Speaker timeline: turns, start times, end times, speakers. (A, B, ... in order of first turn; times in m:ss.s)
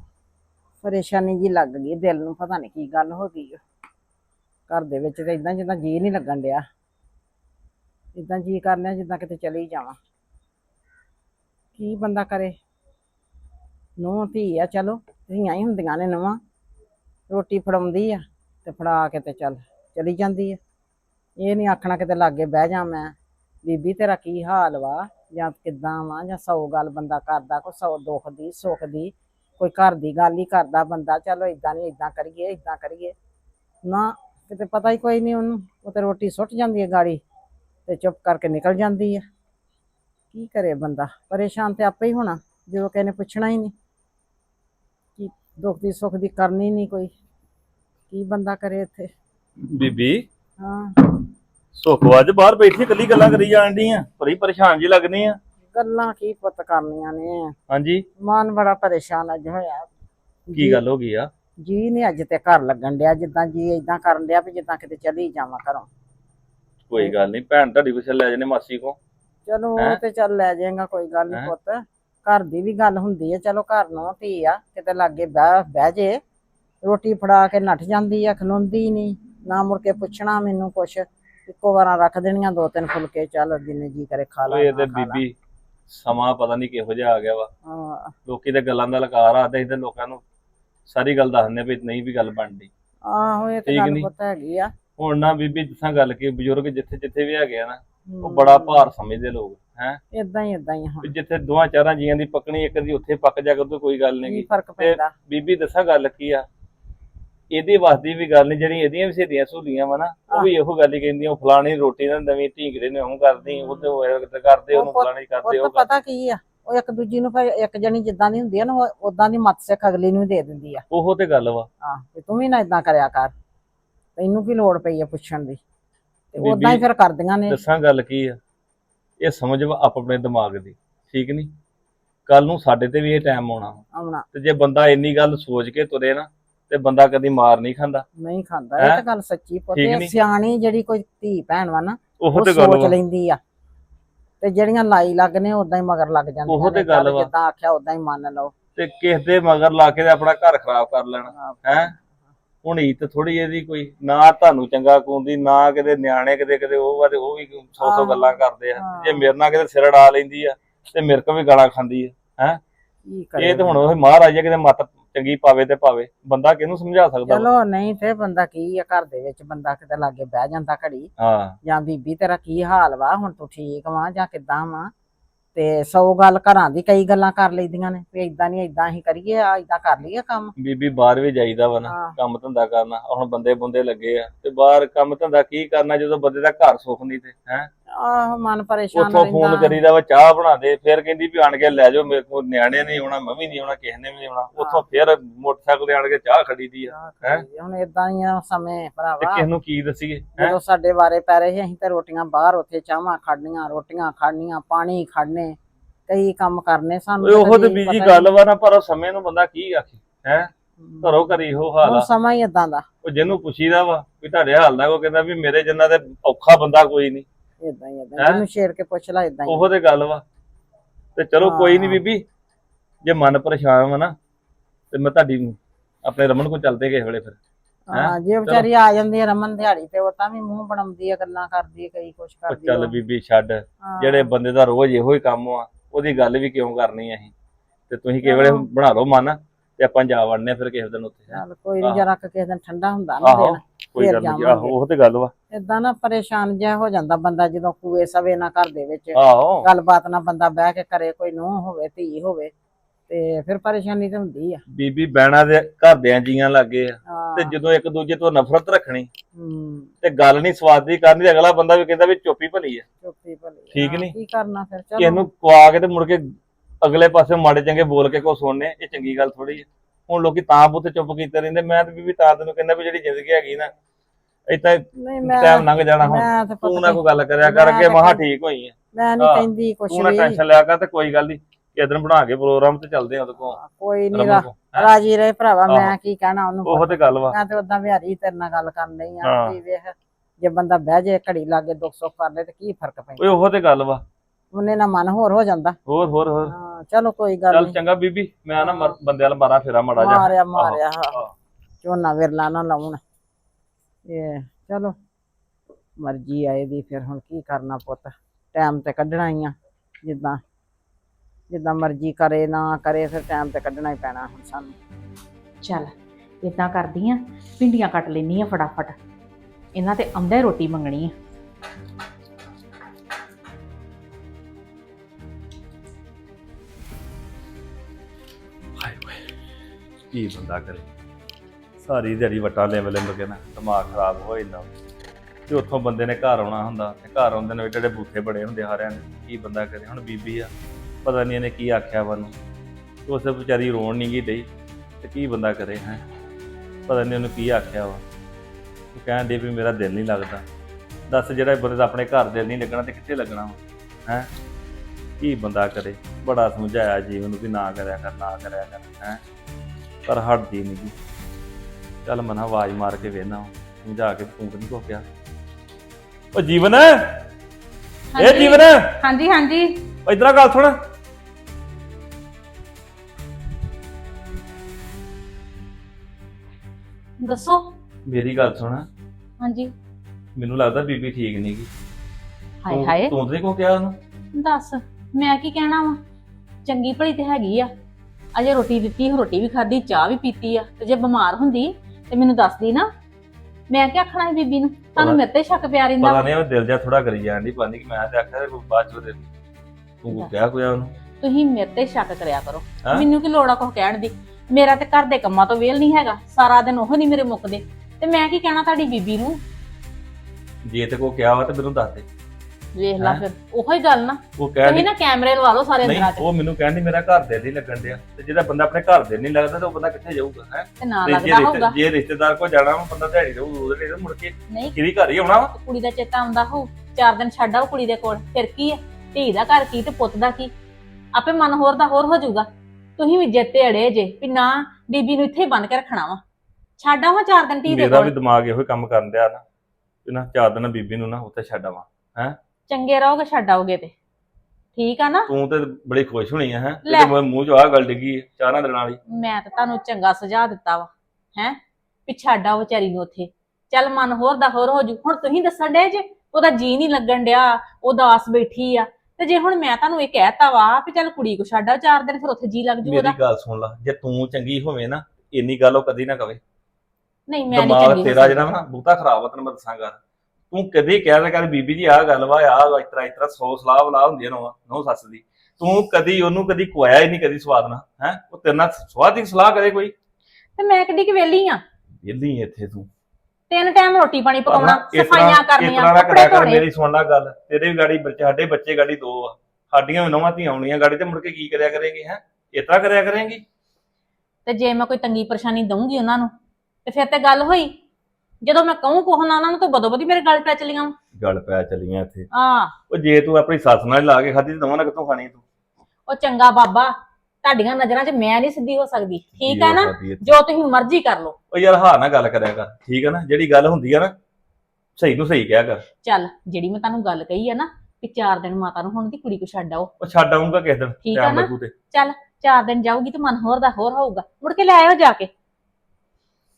0:00.8-0:03.6 A
0:04.7-0:06.6 A
0:08.1-0:10.0 A
0:11.8-0:12.6 A
0:14.0-0:16.4 A
0:17.3-0:20.6 A
0:21.4-0:33.1 A
0:33.8-0:37.2 A
0:37.9-0:39.2 A
0:40.3-0:43.7 A
0:45.2-0:47.1 A
0:48.1-0:49.1 A
0:49.6-0:50.2 B
0:50.6-0:51.0 A
0:51.7-0:55.4 B
0:55.7-0:57.5 A
0:57.7-0:58.0 B
0:58.2-0:59.9 A
1:00.5-1:00.8 A
1:00.5-1:01.3 B
1:01.6-1:05.9 A
1:06.9-1:09.0 B
1:09.4-1:16.2 A
1:16.8-1:25.2 A
1:24.5-1:25.3 B
1:25.9-1:27.5 B
1:27.6-1:28.1 A
1:28.3-1:30.2 B
1:30.9-1:32.7 B
1:33.0-1:34.7 A
1:33.6-1:34.1 B
1:35.0-1:40.0 B
1:38.1-1:38.9 A
1:40.1-1:41.1 A
1:41.0-1:46.4 B
1:44.2-1:45.1 A
1:47.5-1:55.9 B
1:53.4-1:53.9 A
1:54.7-2:00.8 A
2:00.9-2:01.7 B
2:01.8-2:03.3 A
2:04.2-2:05.6 A
2:06.3-2:07.6 A
2:06.4-2:06.8 B
2:07.5-2:08.4 B
2:09.2-2:11.5 B
2:12.3-2:13.8 B
2:13.9-2:14.2 A
2:14.3-2:18.0 B
2:18.2-2:23.4 A
2:19.7-2:20.1 B
2:22.2-2:23.0 B
2:24.4-2:28.5 A
2:26.5-2:27.3 B
2:28.8-2:31.9 B
2:31.3-2:32.1 A
2:32.6-2:42.6 B
2:37.8-2:39.3 A
2:43.1-2:43.8 A
2:43.4-2:47.5 B
2:47.3-2:51.1 A
2:51.2-2:51.6 B
2:51.6-2:54.9 A
2:55.5-3:00.5 A
3:00.6-3:07.7 B
3:01.8-3:02.2 A
3:07.9-3:09.8 A
3:08.9-3:17.4 B
3:16.9-3:19.4 A
3:19.2-3:20.5 B
3:20.4-3:25.6 A
3:26.1-3:28.3 A
3:27.2-3:30.5 B
3:30.8-3:32.8 A
3:31.0-3:32.1 B
3:33.0-3:37.2 B
3:37.6-3:39.7 A
3:39.5-3:40.2 B
3:41.2-3:42.2 B
3:41.4-3:42.0 A
3:43.0-3:44.1 B
3:44.9-3:47.4 B
3:47.9-3:53.0 A
3:47.9-3:48.7 B
3:52.5-3:57.3 B
3:53.8-3:54.3 A
3:57.9-4:02.0 B
3:58.2-3:58.6 A
4:01.3-4:04.7 A
4:03.2-4:05.3 B
4:05.5-4:12.5 A
4:09.1-4:09.7 B
4:13.1-4:14.6 A
4:14.7-4:19.1 B
4:17.1-4:17.5 A
4:19.3-4:19.9 A
4:20.0-4:22.8 B
4:23.0-4:25.2 A
4:23.7-4:24.1 B
4:25.0-4:33.7 B
4:34.5-4:43.6 B
4:35.0-4:38.2 A
4:38.9-4:40.4 A
4:43.5-4:53.2 A
4:44.1-4:44.9 B
4:45.7-4:45.9 B
4:46.6-4:47.3 B
4:49.2-4:49.6 B
4:53.2-4:54.0 B
4:54.5-4:55.8 A
4:55.9-4:56.5 B
4:56.4-4:57.8 A
4:57.5-5:01.3 B
4:58.6-4:58.9 A
5:00.0-5:01.2 A
5:01.8-5:03.0 A
5:04.1-5:04.9 A
5:06.0-5:10.4 A
5:11.5-5:14.7 A
5:15.6-5:19.0 C
5:19.7-5:21.1 C
5:28.8-5:29.3 B
5:30.1-5:30.9 B
5:31.8-5:34.7 B
5:35.5-5:40.5 B
5:41.0-5:42.3 B
5:43.1-5:44.5 B
5:45.0-5:46.0 B
5:46.9-5:48.0 B
5:48.9-5:50.4 B
5:51.1-5:54.3 B
5:55.2-5:59.2 B
6:00.0-6:00.9 B
6:02.0-6:05.0 B
6:06.3-6:07.2 B
6:08.1-6:09.8 C
6:08.2-6:09.0 B
6:10.0-6:10.8 B
6:17.2-6:17.6 C
6:18.1-6:18.9 B
6:19.4-6:19.7 C
6:20.4-6:21.7 B
6:22.6-6:23.1 C
6:22.7-6:24.0 B
6:24.3-6:26.0 C
6:26.6-6:27.7 C
6:28.3-6:32.9 C
6:33.7-6:36.3 C
6:36.0-6:39.3 B
6:40.0-6:40.9 B
6:41.2-6:49.4 C
6:50.6-6:52.0 B
6:52.7-6:56.2 C
6:54.4-6:54.9 B
6:55.8-7:05.5 B
7:00.8-7:01.7 C
7:04.5-7:04.8 C
7:05.5-7:10.5 C
7:11.1-7:16.2 C
7:16.8-7:18.1 C
7:17.7-7:19.4 B
7:20.0-7:22.4 B
7:22.7-7:23.9 C
7:24.8-7:25.3 C
7:25.3-7:29.0 B
7:26.8-7:27.1 C
7:29.1-7:43.2 C
7:42.8-7:46.4 B
7:47.3-7:48.5 C
7:47.5-7:50.0 B
7:50.5-7:59.9 B
8:00.6-8:01.6 C
8:02.0-8:02.9 B
8:03.5-8:06.6 C
8:04.5-8:13.4 B
8:14.4-8:16.3 C
8:16.8-8:17.7 C
8:18.4-8:20.9 C
8:21.1-8:22.3 B
8:22.3-8:22.8 C
8:22.9-8:25.4 B
8:26.1-8:31.4 C
8:29.4-8:30.3 B
8:31.5-8:34.1 B
8:35.0-8:35.8 B
8:36.0-8:39.9 C
8:40.0-8:41.7 B
8:41.0-8:45.3 C